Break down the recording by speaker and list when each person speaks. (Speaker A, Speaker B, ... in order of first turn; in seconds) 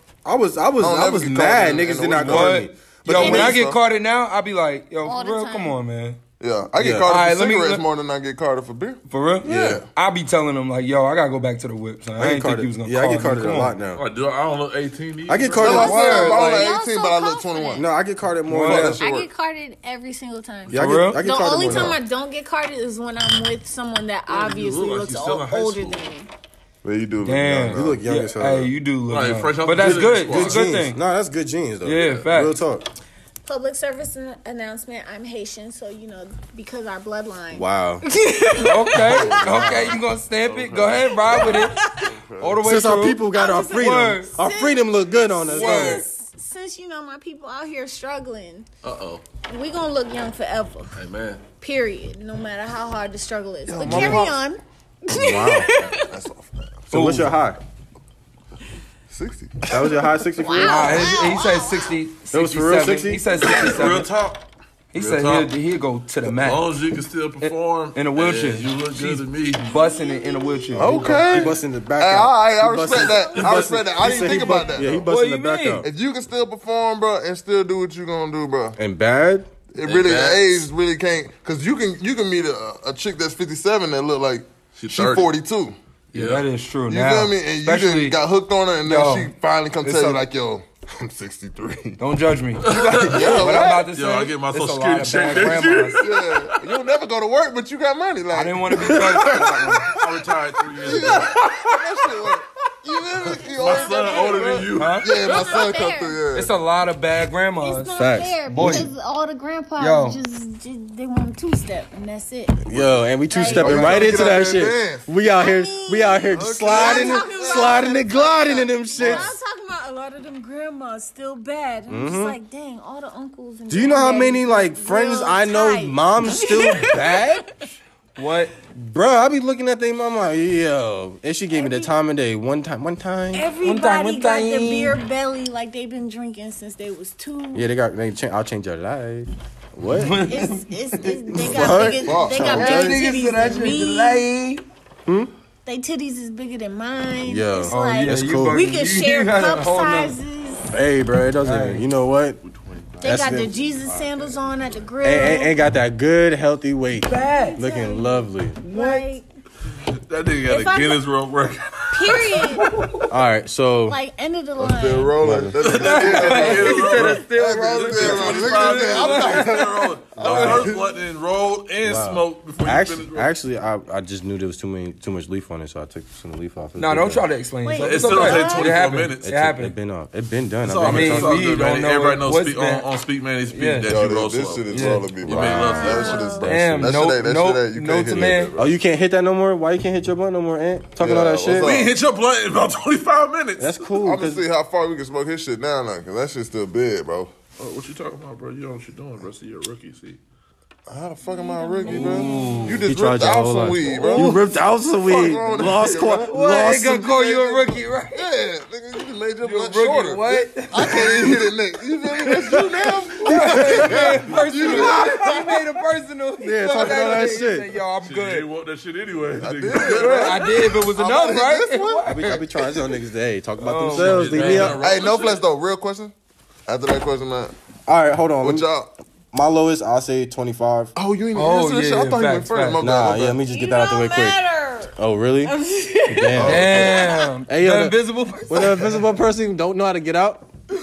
Speaker A: 0.2-3.6, 12.2-14.0, 15.3-16.0, 17.8-19.0, 20.7-22.0, 27.7-28.7, 29.8-32.9, 37.5-38.0, 42.6-46.0, 55.1-55.7, 56.9-57.6, 59.7-61.0, 62.3-63.4, 70.8-75.9, 78.8-79.5, 108.0-108.9, 112.7-119.3, 121.9-122.4, 123.7-127.5, 128.8-133.5, 137.5-140.2, 141.4-143.0, 145.1-145.3, 147.2-148.6, 150.7-152.4, 153.0-153.5, 155.0-158.6, 163.1-164.0, 165.2-165.6, 170.2-170.7, 171.8-177.3, 179.2-181.5, 185.2-186.9, 188.6-191.8, 193.6-194.4, 202.8-207.1, 213.2-215.1, 216.4-217.8, 222.1-224.8, 227.9-228.7, 229.3-230.9, 232.8-234.4, 235.0-235.6, 236.1-240.5
Speaker B: 0.8-3.8, 6.4-9.8, 15.6-17.9, 18.6-19.3, 21.6-22.0, 26.8-28.0, 39.0-42.6, 53.7-54.4, 55.8-56.9, 59.1-60.0, 70.8-75.1, 75.8-78.8, 79.7-85.8, 86.9-92.0, 92.7-93.8, 96.0-100.1, 100.7-106.5, 113.4-115.1, 116.3-119.3, 141.5-142.9, 164.6-170.8, 183.9-188.8, 191.0-191.9, 194.0-197.3, 200.9-204.4, 205.0-215.6, 219.4-222.8, 224.7-226.1, 226.7-227.5, 228.4-228.9, 230.9-233.4, 236.4-237.0
Speaker C: 2.2-6.2, 6.8-7.8, 9.1-13.7, 15.7-16.7, 18.5-19.0, 20.8-21.2, 27.2-31.0, 31.8-32.6, 38.6-41.8, 42.4-43.2, 43.7-44.4, 45.5-46.0, 53.9-54.2, 56.9-57.3, 60.6-64.1, 64.9-66.7, 67.4-71.5, 75.1-75.8, 86.1-88.2, 88.8-89.3, 89.8-90.2, 92.0-96.0, 98.3-99.9, 104.8-105.1, 106.3-108.9, 109.8-110.2, 113.7-113.9, 128.2-128.5, 133.6-135.0, 139.9-141.4, 142.5-144.6, 147.7-150.2, 151.4-151.8, 157.1-157.6, 158.6-159.1, 165.8-169.6, 170.2-170.7, 176.8-179.8, 180.8-182.9, 183.5-183.9, 184.7-185.0, 186.4-188.5, 201.8-202.9, 203.8-204.4, 206.2-208.2, 209.4-211.4, 213.2-218.5, 219.8-222.4, 223.6-224.8, 231.3-232.9, 236.4-239.1
Speaker D: 5.0-5.8, 15.8-17.9, 19.0-26.3, 33.5-39.4, 41.4-42.1, 43.3-48.7, 49.5-51.0, 51.6-56.1, 60.4-62.0, 69.7-71.2, 72.9-74.7, 103.6-106.2, 107.6-112.7, 113.3-114.5, 115.3-127.6, 131.5-131.9, 133.3-137.7, 140.2-144.2, 145.7-150.7, 153.0-155.6, 157.1-159.3, 160.5-161.0, 161.9-162.7, 163.9-165.2, 177.6-178.8, 185.6-186.5, 201.2-202.6, 233.4-234.9, 235.4-237.3
Speaker E: 14.0-15.9, 24.3-26.0, 29.1-30.7, 48.8-49.2, 51.0-51.4, 63.4-64.4, 65.0-65.5, 66.3-69.7, 79.8-80.7, 84.8-85.3, 86.1-86.5, 92.6-96.5, 99.9-102.1, 103.4-105.1, 152.5-154.5, 160.1-162.8, 165.6-173.3, 177.8-179.3, 180.7-186.3, 191.5-193.8, 197.6-200.2, 218.0-220.5, 223.9-225.4